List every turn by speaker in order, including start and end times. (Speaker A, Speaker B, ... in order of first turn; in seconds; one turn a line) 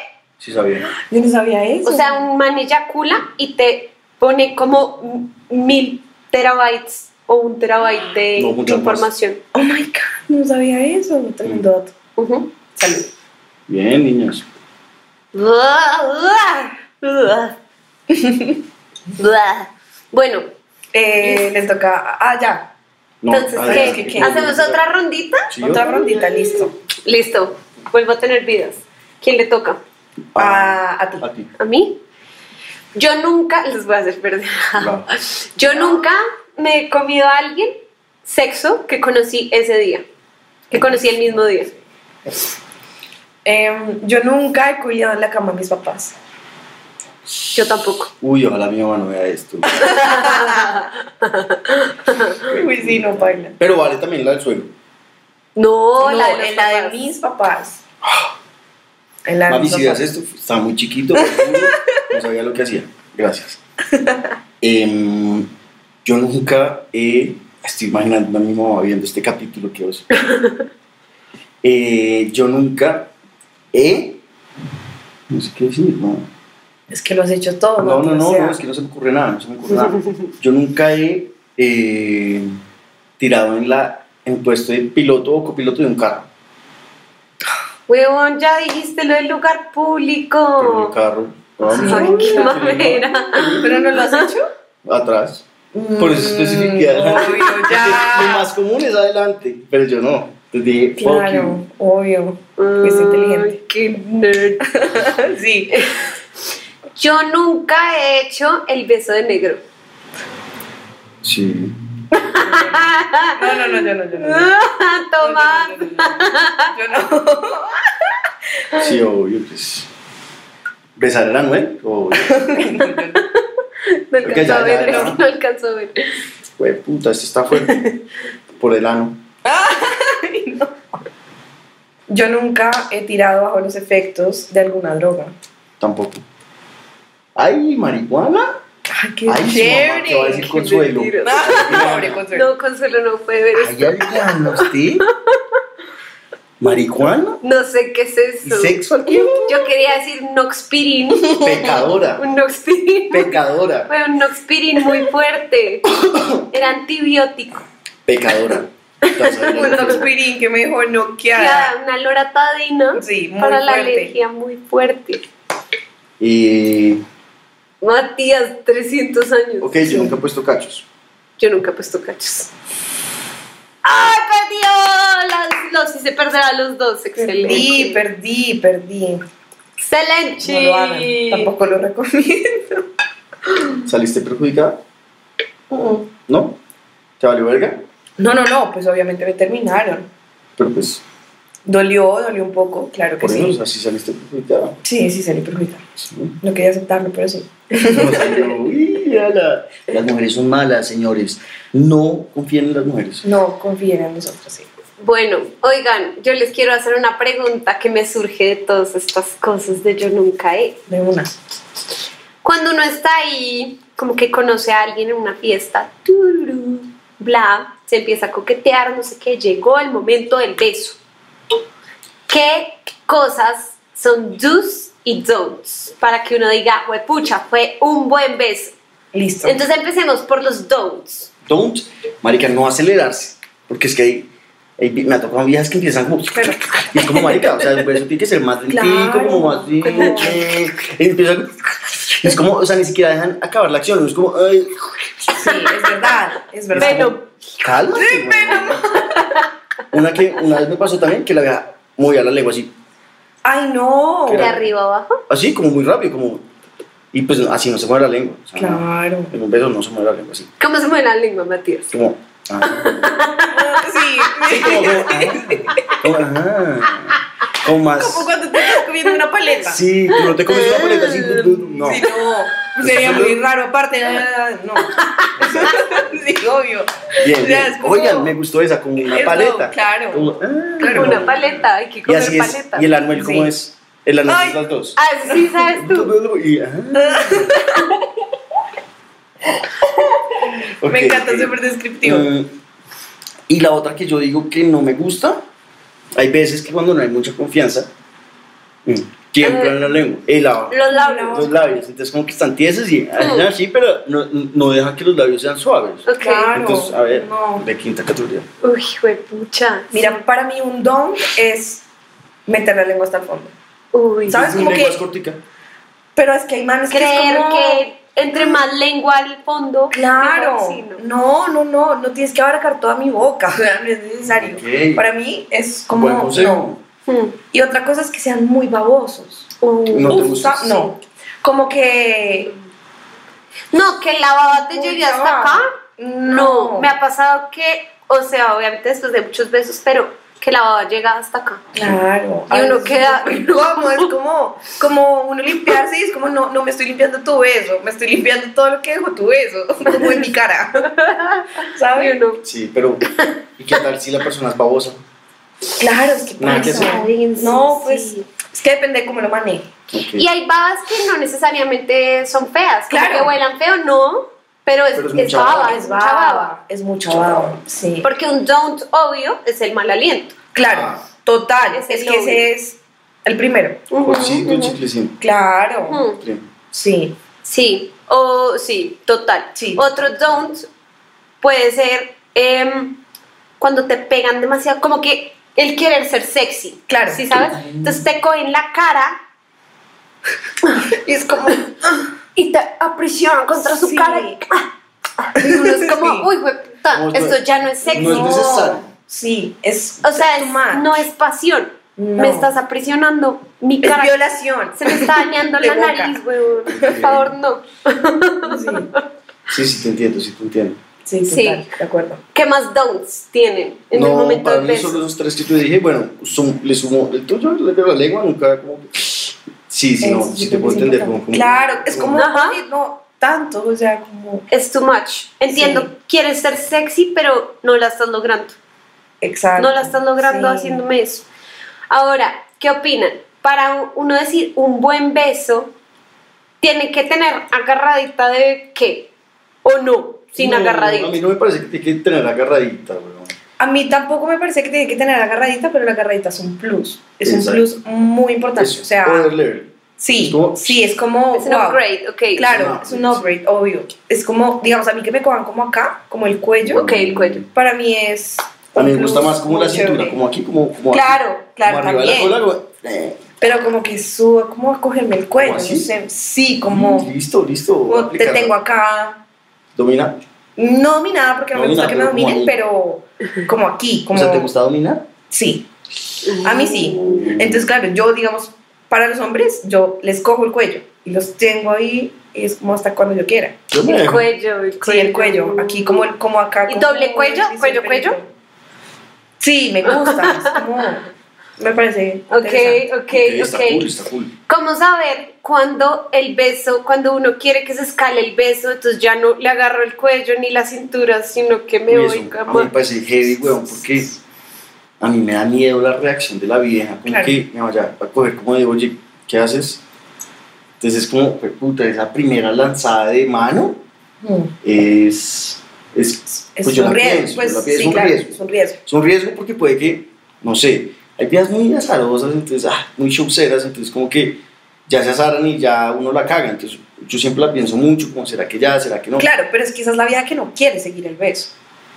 Speaker A: 0.4-0.9
Speaker B: 1.0-2.2
Speaker C: 1.8-9.4
Speaker A: 8.4-9.1
Speaker B: 9.5-11.9
Speaker C: 12.2-12.5
Speaker B: 12.8-13.1
Speaker A: 13.7-14.5
Speaker C: 15.3-17.6
Speaker B: 18.1-18.6
Speaker C: 19.2-20.5
Speaker B: 20.9-22.7
Speaker C: 21.2-21.5
Speaker A: 23.2-24.8
Speaker C: 23.3-25.5
Speaker B: 23.6-24.5
Speaker A: 25.5-26.7
Speaker B: 25.6-26.7
Speaker C: 27.1-29.8
Speaker A: 30.3-31.5
Speaker B: 30.4-31.2
Speaker C: 31.6-32.0
Speaker C: 33.0-40.0
Speaker A: 34.8-35.1
Speaker B: 35.7-36.0
Speaker C: 40.7-41.7
Speaker B: 40.7-41.2
Speaker B: 43.5-46.2
Speaker C: 47.5-48.1
Speaker A: 48.2-49.9
Speaker B: 49.7-50.7
Speaker C: 49.8-52.4
Speaker B: 52.4-53.6
Speaker A: 52.8-54.7
Speaker C: 55.5-57.0
Speaker B: 56.0-57.8
Speaker A: 58.0-58.3
Speaker B: 59.2-60.0
Speaker A: 59.5-63.6
Speaker B: 61.2-62.0
Speaker B: 64.0-64.2
Speaker A: 64.6-65.5
Speaker A: 66.0-70.0
Speaker C: 70.1-70.6
Speaker A: 71.6-73.1
Speaker A: 73.7-74.2
Speaker A: 75.3-76.3
Speaker B: 76.9-78.6
Speaker A: 77.8-82.5
Speaker C: 79.7-80.3
Speaker A: 83.2-86.3
Speaker C: 87.9-90.9
Speaker A: 90.6-94.0
Speaker B: 91.7-93.0
Speaker C: 91.8-94.3
Speaker B: 93.6-94.5
Speaker A: 94.8-95.4
Speaker B: 95.7-98.5
Speaker A: 96.0-101.6
Speaker B: 101.0-103.6
Speaker C: 102.6-104.6
Speaker B: 104.7-106.0
Speaker C: 105.7-106.1
Speaker C: 107.0-109.6
Speaker A: 111.2-111.8
Speaker C: 112.2-116.7
Speaker B: 112.3-114.5
Speaker B: 115.2-118.1
Speaker A: 118.8-119.9
Speaker A: 121.0-122.7
Speaker B: 122.2-123.2
Speaker C: 123.2-126.1
Speaker A: 124.2-125.2
Speaker B: 124.8-125.1
Speaker A: 126.6-127.8
Speaker C: 127.7-128.0
Speaker A: 128.6-129.2
Speaker B: 129.4-130.8
Speaker B: 132.1-135.3
Speaker A: 135.8-136.2
Speaker A: 137.3-138.5
Speaker B: 138.9-140.6
Speaker A: 139.3-142.2
Speaker C: 140.1-144.7
Speaker B: 141.2-142.5
Speaker A: 143.6-145.0
Speaker A: 146.6-147.4
Speaker C: 147.4-148.8
Speaker A: 148.4-149.4
Speaker B: 149.1-149.5
Speaker C: 149.3-153.4
Speaker B: 151.2-151.7
Speaker A: 151.4-152.3
Speaker A: 153.1-153.9
Speaker C: 153.9-155.9
Speaker A: 155.9-156.5
Speaker C: 156.5-157.7
Speaker A: 158.1-160.1
Speaker C: 159.1-160.0
Speaker B: 159.5-161.7
Speaker C: 161.3-165.2
Speaker B: 163.0-164.1
Speaker A: 166.2-167.0
Speaker C: 167.8-169.9
Speaker A: 169.6-170.8
Speaker C: 171.4-172.5
Speaker C: 173.8-178.0
Speaker B: 177.2-179.2
Speaker C: 179.8-181.5
Speaker B: 180.4-182.8
Speaker B: 183.5-183.8
Speaker A: 183.8-184.8
Speaker B: 185.7-186.0
Speaker A: 186.3-186.6
Speaker A: 187.2-187.8
Speaker B: 188.2-190.1
Speaker A: 190.6-191.0
Speaker B: 191.7-193.6
Speaker A: 193.2-194.8
Speaker B: 194.8-195.8
Speaker A: 196.0-196.4
Speaker B: 196.4-198.5
Speaker A: 197.9-203.2
Speaker B: 203.2-204.7
Speaker C: 205.0-210.8
Speaker B: 210.9-211.4
Speaker C: 212.4-221.0
Speaker C: 222.3-228.7
Speaker B: 229.1-229.6
Speaker C: 229.4-231.3
Speaker A: 231.5-244.8
Speaker B: 236.3-237.4
Speaker B: 238.7-240.4
Speaker B: 245.4-247.1
Speaker A: 246.7-248.8
Speaker C: 246.8-247.3
Speaker B: 247.9-249.0
Speaker C: 249.1-249.4
Speaker A: 249.9-252.7
Speaker B: 253.4-254.6
Speaker A: 254.3-254.6
Speaker C: 254.3-255.2
Speaker A: 255.3-256.4
Speaker A: 257.1-260.5
Speaker B: 258.6-259.3
Speaker C: 260.6-261.9
Speaker A: 261.9-263.1
Speaker C: 262.6-263.8
Speaker B: 263.5-265.8
Speaker A: 264.5-268.3
Speaker C: 264.6-265.1
Speaker B: 268.0-269.8
Speaker A: 269.6-272.0
Speaker C: 270.1-271.5
Speaker B: 271.7-278.4
Speaker A: 272.8-273.4
Speaker C: 274.9-275.3
Speaker A: 275.4-275.9
Speaker A: 277.2-285.0
Speaker B: 279.1-281.3
Speaker C: 280.9-282.9
Speaker B: 283.1-283.5
Speaker B: 284.3-284.6
Speaker C: 285.0-286.1
Speaker A: 285.7-287.5
Speaker B: 286.9-287.9
Speaker B: 289.8-290.2
Speaker A: 290.8-292.5
Speaker B: 290.8-292.3
Speaker A: 293.5-295.4
Speaker A: 296.1-297.9
Speaker A: 298.9-308.5
Speaker C: 299.4-299.8
Speaker C: 300.7-301.5
Speaker B: 300.9-301.7
Speaker C: 303.2-303.5
Speaker C: 306.1-306.5
Speaker B: 306.2-307.7
Speaker C: 308.6-310.2
Speaker B: 309.9-311.8
Speaker B: 312.5-313.5
Speaker C: 313.9-314.6
Speaker B: 314.3-315.0
Speaker A: 314.3-315.4
Speaker B: 316.2-318.6
Speaker C: 316.9-321.0
Speaker B: 319.9-326.7
Speaker A: 324.4-325.0
Speaker A: 325.9-326.8
Speaker C: 327.1-327.4
Speaker B: 327.5-329.5
Speaker C: 329.6-330.4
Speaker A: 329.9-330.9
Speaker B: 330.0-332.5
Speaker C: 333.7-335.7
Speaker B: 334.6-336.9
Speaker C: 336.2-341.6
Speaker B: 341.7-350.9
Speaker C: 342.5-344.1
Speaker C: 349.9-350.2
Speaker C: 350.8-352.4
Speaker B: 351.7-352.2
Speaker A: 352.4-353.0
Speaker A: 353.6-355.0
Speaker B: 355.8-359.7
Speaker A: 356.4-357.0
Speaker C: 356.5-358.2
Speaker A: 359.9-360.3
Speaker C: 360.1-366.5
Speaker B: 362.9-363.4
Speaker A: 364.9-365.8
Speaker B: 365.4-368.1
Speaker A: 367.1-367.6
Speaker C: 368.0-370.4
Speaker B: 370.5-373.8
Speaker A: 370.6-371.0
Speaker C: 371.7-372.4
Speaker C: 373.9-374.8
Speaker A: 374.0-375.2
Speaker B: 375.2-376.0
Speaker C: 375.9-376.2
Speaker A: 376.2-376.4
Speaker B: 376.7-377.2
Speaker C: 377.4-380.7
Speaker B: 379.6-379.8
Speaker C: 381.4-383.0
Speaker C: 383.6-389.2
Speaker B: 386.9-387.3
Speaker A: 387.6-388.0
Speaker B: 390.9-391.7
Speaker C: 392.4-394.7
Speaker B: 393.6-394.4
Speaker C: 395.2-398.6
Speaker B: 395.4-396.3
Speaker A: 396.9-397.4
Speaker B: 397.9-401.1
Speaker A: 397.9-398.9
Speaker C: 400.0-404.2
Speaker B: 402.0-402.5
Speaker B: 403.8-406.1
Speaker C: 404.8-409.0
Speaker A: 406.7-407.4
Speaker B: 408.4-408.9
Speaker A: 409.5-410.8
Speaker B: 411.1-412.2
Speaker C: 411.3-411.7
Speaker C: 412.3-415.0
Speaker A: 413.9-422.2
Speaker B: 420.0-424.5
Speaker C: 422.1-422.6
Speaker C: 424.5-428.6
Speaker B: 425.5-425.9
Speaker B: 429.2-430.8
Speaker C: 429.6-431.2
Speaker C: 431.9-435.7
Speaker C: 436.6-439.1
Speaker C: 439.6-441.2
Speaker A: 440.4-443.3
Speaker B: 443.6-449.3
Speaker A: 447.2-447.6
Speaker A: 448.6-450.8
Speaker B: 450.0-451.8
Speaker C: 451.3-452.5
Speaker B: 452.4-456.9
Speaker A: 452.4-453.3
Speaker A: 456.6-457.5
Speaker C: 456.7-457.4
Speaker B: 457.5-460.2
Speaker A: 458.8-463.2
Speaker B: 460.9-462.4
Speaker B: 463.4-467.1
Speaker A: 465.4-465.9
Speaker A: 466.7-468.6
Speaker B: 467.9-469.2
Speaker A: 469.8-470.2
Speaker B: 470.6-474.5
Speaker A: 471.5-472.6
Speaker A: 474.1-475.1
Speaker B: 475.3-475.7
Speaker C: 476.2-477.2
Speaker B: 476.4-483.6
Speaker A: 476.9-477.7
Speaker A: 483.7-484.2
Speaker C: 483.8-486.1
Speaker B: 484.8-488.3
Speaker C: 486.7-488.2
Speaker B: 489.4-492.9
Speaker C: 489.9-490.6
Speaker C: 492.3-493.9
Speaker A: 493.1-494.3
Speaker C: 494.5-502.7
Speaker A: 501.9-504.1
Speaker A: 505.0-509.8
Speaker B: 507.1-507.4
Speaker A: 510.8-513.8
Speaker B: 514.2-514.5
Speaker A: 514.6-518.4
Speaker B: 516.5-518.8
Speaker A: 518.9-529.3
Speaker B: 529.2-531.5